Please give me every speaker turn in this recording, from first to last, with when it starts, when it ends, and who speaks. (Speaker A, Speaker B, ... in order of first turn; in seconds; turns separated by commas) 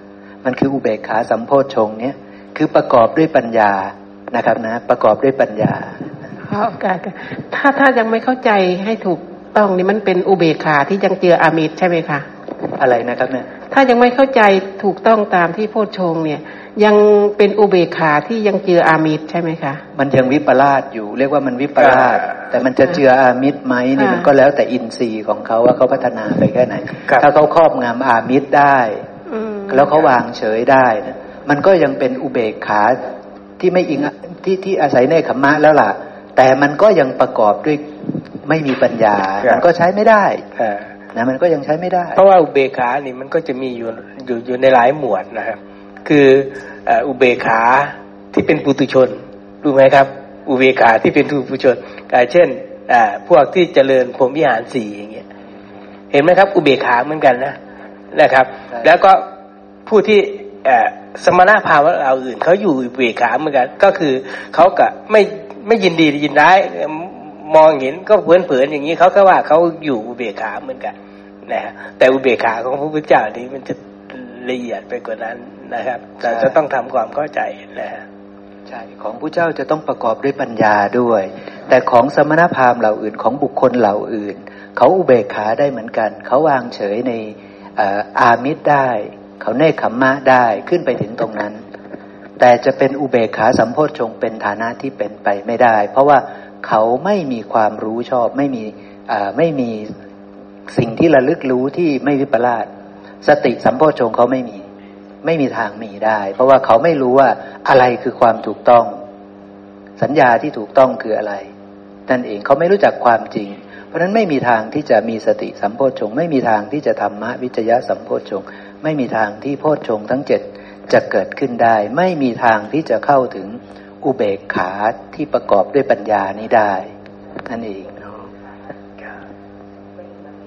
Speaker A: 0.4-6.0, Speaker B: 6.4-12.3, Speaker A: 12.8-13.5, Speaker B: 13.7-19.8, Speaker A: 19.9-29.1, Speaker B: 24.0-24.3, Speaker B: 29.3-29.8, Speaker A: 29.7-33.1, Speaker A: 33.6-40.5, Speaker C: 40.6-40.9, Speaker A: 41.1-42.2, Speaker C: 42.2-55.2, Speaker C: 56.1-57.6, Speaker C: 58.1-59.2, Speaker C: 59.9-70.9, Speaker C: 71.5-78.0, Speaker A: 76.3-76.5, Speaker A: 78.7-91.6, Speaker A: 92.4-99.9, Speaker A: 100.7-102.7, Speaker A: 103.2-104.7, Speaker A: 105.2-109.0, Speaker A: 110.0-111.5, Speaker A: 112.1-126.9, Speaker A: 127.5-128.2